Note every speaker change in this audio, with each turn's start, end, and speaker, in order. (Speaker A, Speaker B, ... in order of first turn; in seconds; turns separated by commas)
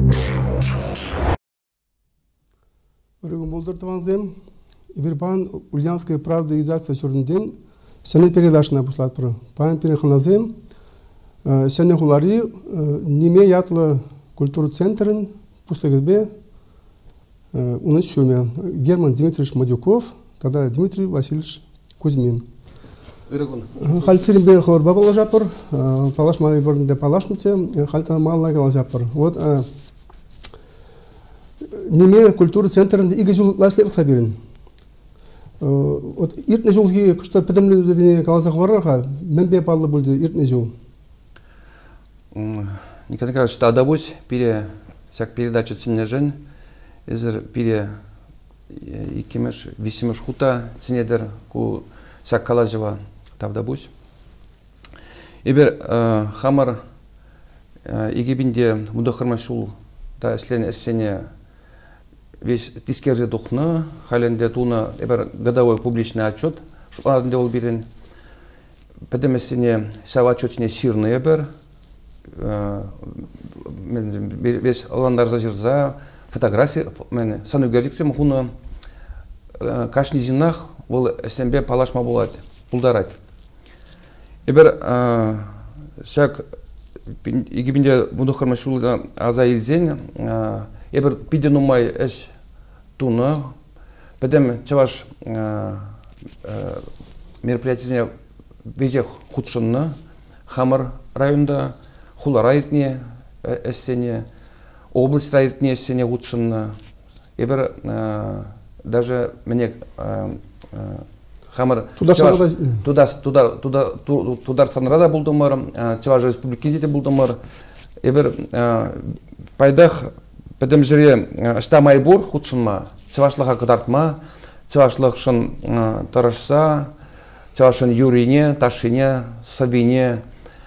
Speaker A: 3.2-4.3, Speaker A: 4.9-10.5, Speaker A: 11.4-16.3, Speaker A: 17.5-22.4, Speaker B: 23.3-24.1, Speaker A: 23.8-29.7, Speaker A: 31.7-34.4, Speaker A: 35.6-40.7, Speaker B: 42.3-46.4, Speaker B: 47.1-47.9, Speaker B: 48.7-53.9, Speaker B: 55.5-56.8, Speaker B: 57.9-61.2, Speaker B: 62.4-67.9, Speaker B: 69.1-71.5, Speaker B: 72.4-78.5, Speaker B: 79.6-83.2, Speaker B: 84.5-86.5, Speaker B: 87.2-92.3, Speaker B: 93.0-93.5, Speaker B: 94.2-95.9, Speaker B: 96.4-96.8, Speaker B: 97.4-98.1, Speaker B: 98.7-100.0, Speaker B: 100.5-104.2, Speaker B: 104.9-106.8, Speaker B: 107.4-117.4, Speaker A: 112.0-112.8, Speaker B: 118.0-124.2, Speaker B: 124.7-126.9, Speaker B: 127.6-130.2